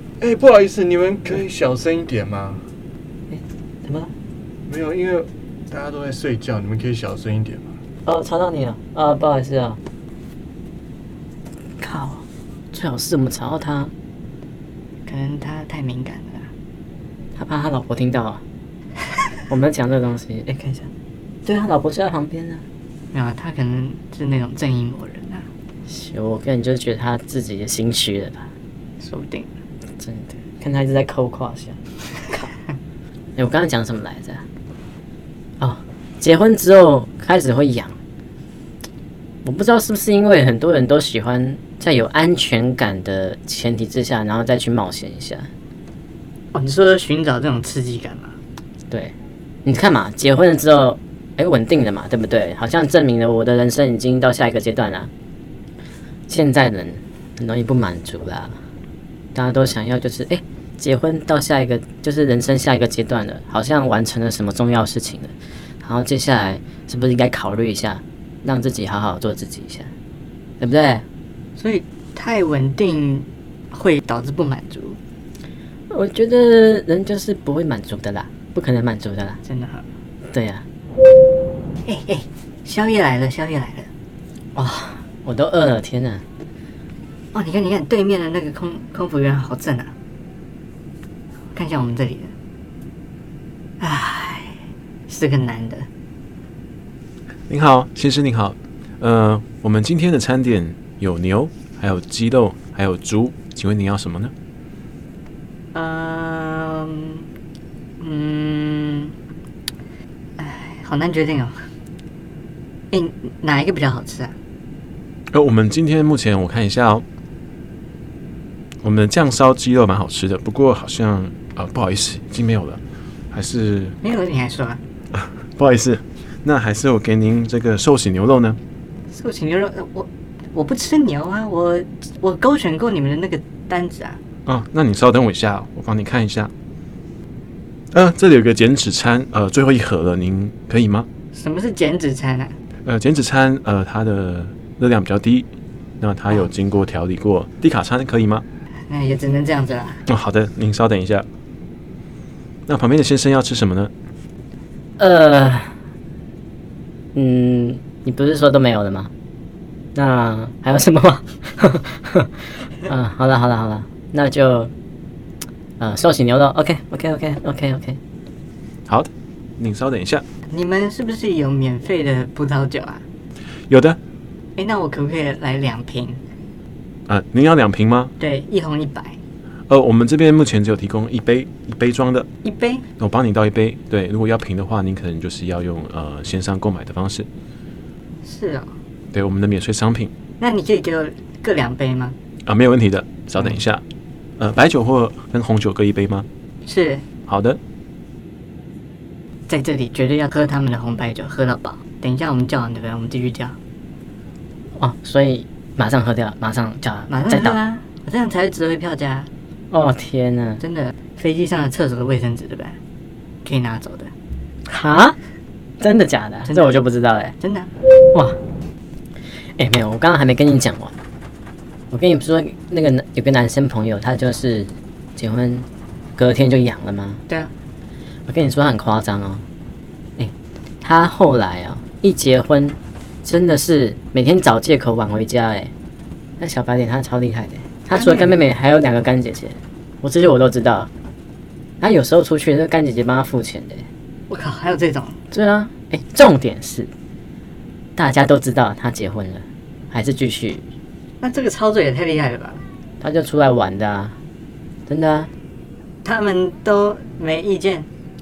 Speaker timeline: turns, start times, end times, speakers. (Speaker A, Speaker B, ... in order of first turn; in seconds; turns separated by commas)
Speaker A: 0.2-2.6, Speaker B: 3.3-4.1, Speaker A: 4.7-7.7, Speaker B: 8.0-9.8, Speaker B: 11.8-13.9, Speaker C: 15.1-16.5, Speaker B: 17.4-18.4, Speaker B: 19.5-20.5, Speaker C: 20.5-20.9, Speaker B: 21.4-22.6, Speaker C: 23.1-25.4, Speaker B: 25.9-28.4, Speaker C: 29.0-29.5, Speaker B: 30.0-31.8, Speaker B: 33.4-34.4, Speaker B: 35.6-37.9, Speaker B: 39.4-45.5, Speaker C: 46.5-48.4, Speaker B: 48.9-55.1, Speaker B: 56.3-58.6, Speaker B: 59.3-69.9, Speaker B: 70.6-71.0, Speaker C: 71.5-75.0, Speaker B: 75.9-79.4, Speaker C: 79.4-79.8, Speaker B: 80.3-80.6, Speaker C: 81.8-83.9, Speaker B: 84.5-86.2, Speaker C: 87.3-89.9, Speaker C: 91.5-92.3, Speaker C: 93.8-95.9, Speaker D: 97.5-104.3, Speaker C: 105.7-107.3, Speaker C: 108.0-109.1, Speaker C: 110.4-111.7, Speaker C: 112.9-114.3, Speaker D: 115.3-117.0, Speaker D: 118.8-122.8, Speaker D: 123.3-124.0, Speaker C: 124.0-124.8, Speaker D: 125.5-128.6, Speaker C: 129.1-134.2, Speaker D: 134.5-136.5, Speaker D: 137.9-141.1, Speaker C: 141.3-142.6, Speaker D: 142.8-145.5, Speaker D: 146.0-148.4, Speaker C: 148.9-150.0, Speaker D: 150.1-151.2, Speaker D: 152.7-153.9, Speaker B: 155.0-155.7, Speaker B: 157.2-159.1, Speaker B: 159.9-164.7, Speaker B: 165.8-168.0, Speaker D: 168.9-170.2, Speaker C: 170.5-173.0, Speaker D: 173.7-174.0, Speaker C: 174.6-176.2, Speaker D: 177.1-178.1, Speaker C: 178.2-179.2, Speaker D: 179.7-182.3, Speaker C: 182.4-182.8, Speaker D: 183.0-187.3, Speaker C: 188.2-188.7, Speaker D: 189.1-190.1, Speaker C: 190.4-192.2, Speaker D: 192.5-193.8, Speaker D: 194.4-196.2, Speaker C: 196.7-197.0, Speaker D: 197.3-197.6, Speaker C: 199.5-203.6, Speaker B: 204.8-207.6, Speaker C: 207.1-209.3, Speaker B: 209.7-210.6, Speaker C: 210.6-212.8, Speaker C: 213.4-214.1, Speaker B: 214.7-215.2, Speaker B: 215.8-217.3, Speaker C: 217.4-217.7, Speaker B: 218.1-218.4, Speaker B: 219.6-220.9, Speaker B: 221.9-227.2, Speaker B: 228.3-229.4, Speaker B: 230.8-235.7, Speaker B: 236.4-240.9, Speaker C: 237.9-238.3, Speaker B: 241.8-243.8, Speaker C: 244.3-245.2, Speaker B: 245.3-246.9, Speaker B: 248.0-250.6, Speaker C: 251.2-252.6, Speaker B: 253.0-254.2, Speaker B: 254.9-255.3, Speaker C: 256.0-257.9